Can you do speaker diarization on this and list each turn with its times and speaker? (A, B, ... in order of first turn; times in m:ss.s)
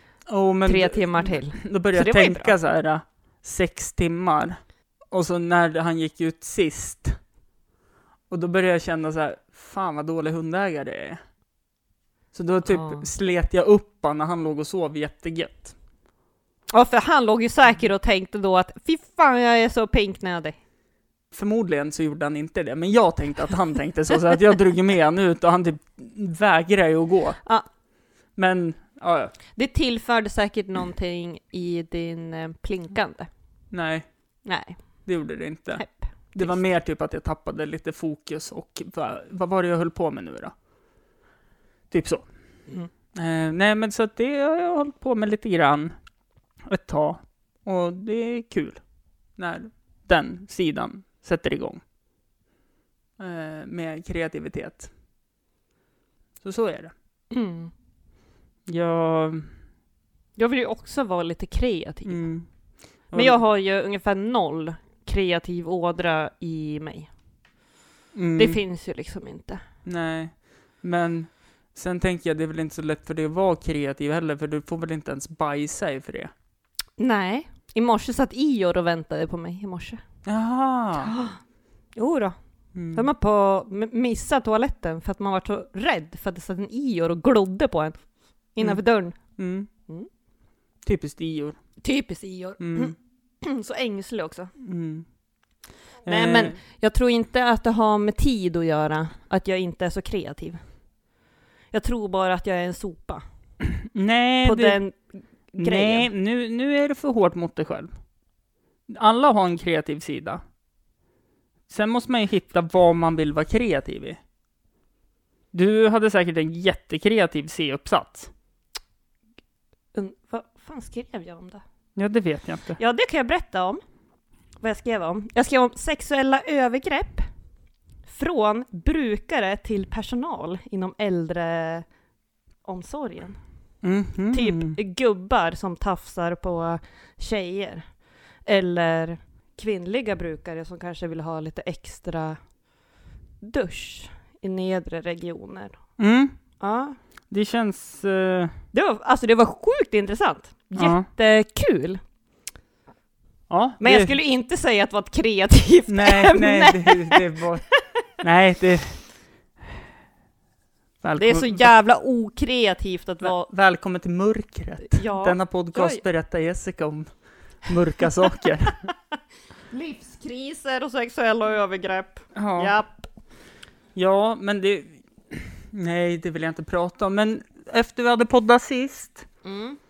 0:00.3-0:04.6 A
0:00.6-0:02.5 B
0:05.1-0:07.2 A
0:08.3-0:11.2 A
0:12.3-0:15.7 A
0:12.7-0:13.0 B
0:16.7-0:20.6 B
0:21.3-0:27.4 A
0:28.4-0:29.3 A
0:29.5-0:33.3 B
0:33.7-0:34.0 A
0:34.4-0:34.8 B
0:35.0-0:40.5 A
0:35.8-0:36.6 B
0:41.9-0:42.2 A
0:43.1-0:45.9 A
0:46.7-0:48.8 A
0:49.4-0:51.8 A
0:53.2-0:54.9 A
0:56.4-0:56.9 A
0:57.3-0:57.7 B
0:58.7-0:59.5 A
1:00.4-1:02.2 B
1:02.0-1:02.5 A
1:03.1-1:03.4 A
1:03.1-1:07.1 B
1:08.1-1:08.6 A
1:08.4-1:09.6 B
1:09.8-1:16.3 A
1:17.0-1:20.0 B
1:20.2-1:21.1 A
1:21.0-1:21.4 B
1:21.9-1:22.3 B
1:22.7-1:23.1 A
1:22.9-1:28.0 B
1:28.5-1:29.2 B
1:29.4-1:29.7 A
1:30.8-1:31.6 A
1:31.8-1:34.5 B
1:32.6-1:32.9 A
1:34.6-1:35.0 A
1:36.0-1:36.6 A
1:36.0-1:40.6 B
1:41.7-1:43.2 B
1:43.9-1:44.8 A
1:44.4-1:45.0 B
1:45.5-1:46.1 B
1:45.6-1:47.9 A
1:48.9-1:50.4 A
1:51.7-1:54.2 A
1:55.5-1:58.3 A
1:59.9-2:01.6 B
2:02.0-2:02.8 A
2:02.8-2:03.8 B
2:04.6-2:07.2 B
2:08.1-2:11.8 B
2:12.6-2:13.4 B
2:13.8-2:14.8 A
2:14.3-2:17.8 B
2:18.4-2:22.4 B
2:23.4-2:25.8 B
2:26.0-2:26.4 A
2:26.6-2:27.0 B
2:27.3-2:28.5 A
2:28.7-2:32.0 B
2:30.8-2:31.1 A
2:33.5-2:34.1 A
2:33.8-2:38.0 B
2:35.9-2:37.7 A
2:38.2-2:39.0 A
2:41.0-2:41.7 A
2:41.2-2:43.5 B
2:43.2-2:47.1 A
2:44.8-2:46.0 B
2:47.6-2:48.9 A
2:49.7-2:53.0 B
2:52.3-2:52.7 A
2:53.9-2:59.3 A
2:59.4-2:59.8 B